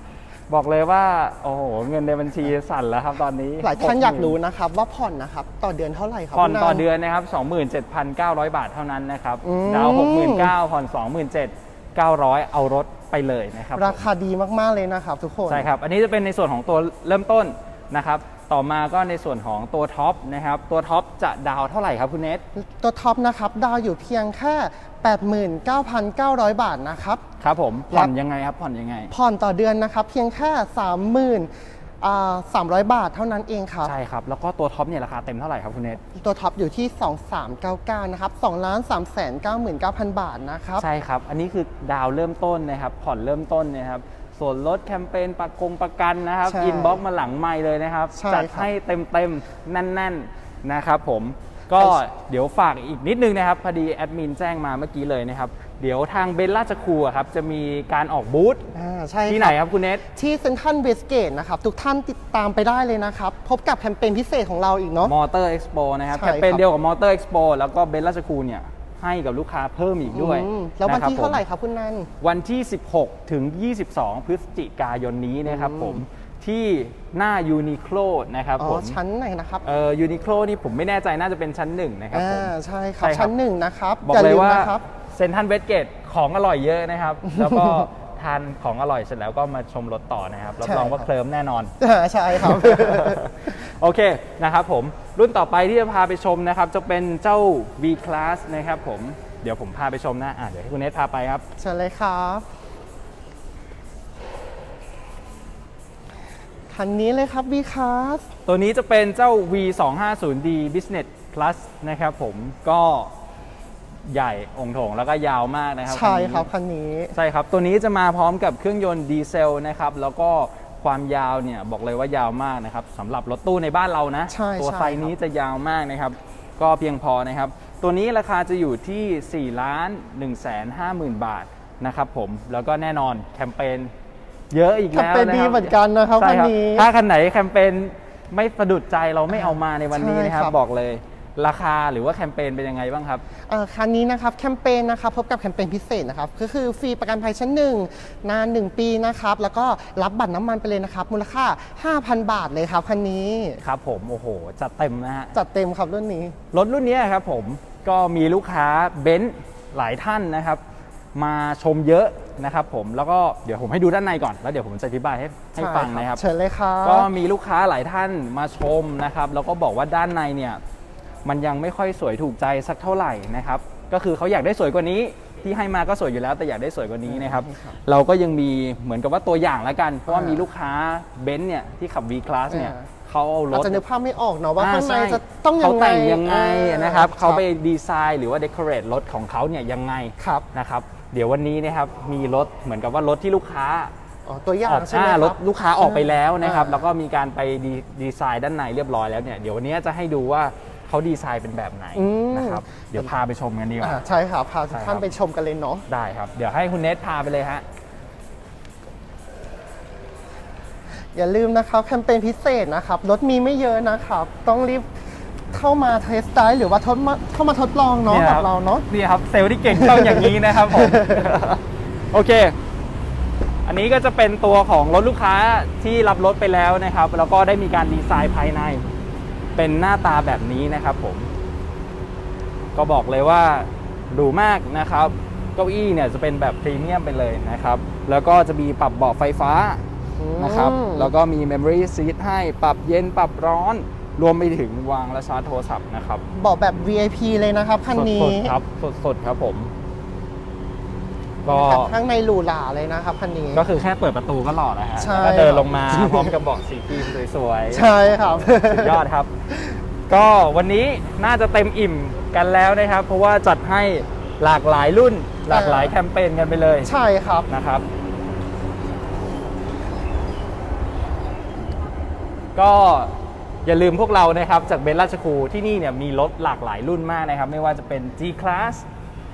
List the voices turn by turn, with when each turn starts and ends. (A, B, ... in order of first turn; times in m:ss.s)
0:00.5-0:04.4 A
0:03.6-0:06.8 B
0:06.3-0:14.0 A
0:09.4-0:10.5 B
0:13.8-0:15.7 B
0:15.5-0:22.4 A
0:22.6-0:27.2 B
0:27.4-0:29.1 A
0:29.1-0:31.5 B
0:32.0-0:33.9 B
0:33.8-0:36.0 A
0:36.1-0:40.8 B
0:40.8-0:58.7 A
0:46.4-0:47.0 B
0:48.2-0:48.7 B
0:58.7-0:59.6 B
0:59.3-1:00.0 A
1:00.1-1:05.1 B
1:05.0-1:11.4 A
1:06.1-1:06.6 B
1:10.1-1:12.1 B
1:12.2-1:19.0 A
1:15.5-1:16.0 B
1:18.6-1:19.6 B
1:19.6-1:23.3 A
1:22.1-1:24.8 B
1:24.0-1:31.7 A
1:27.3-1:27.9 B
1:30.6-1:31.1 B
1:31.8-1:33.4 B
1:32.4-1:41.4 A
1:41.6-1:42.4 B
1:46.7-1:48.3 B
1:48.5-1:53.1 A
1:54.1-1:56.5 A
1:55.9-1:57.2 B
1:57.2-2:13.9 A
2:04.3-2:05.1 B
2:14.5-2:23.2 A
2:14.9-2:16.9 B
2:19.3-2:20.6 B
2:23.5-2:33.6 B
2:33.6-2:35.3 A
2:35.3-2:36.4 B
2:36.5-2:40.6 A
2:41.2-2:46.2 A
2:45.6-2:47.1 B
2:46.8-2:50.6 A
2:51.2-3:03.8 A
2:57.1-2:57.8 B
3:00.1-3:00.5 B
3:02.5-3:02.9 B
3:03.5-3:07.4 B
3:04.6-3:13.9 A
3:10.2-3:10.5 B
3:14.3-3:16.8 B
3:14.7-3:24.0 A
3:22.0-3:23.1 B
3:23.8-3:25.9 B
3:24.7-3:25.1 A
3:25.9-3:27.6 A
3:31.1-3:38.9 B
3:38.1-3:42.6 A
3:39.7-3:41.3 B
3:43.7-3:48.8 A
3:49.6-3:51.3 A
3:52.8-3:59.8 A
4:00.2-4:01.1 B
4:00.4-4:06.2 A
4:06.4-4:08.6 B
4:07.9-4:09.7 A
4:11.4-4:11.9 A
4:11.5-4:13.7 B
4:13.5-4:19.3 A
4:15.0-4:16.4 B
4:17.7-4:19.0 B
4:20.1-4:26.9 A
4:25.5-4:25.9 B
4:26.8-4:27.5 B
4:27.5-4:27.9 A
4:32.6-4:38.8 A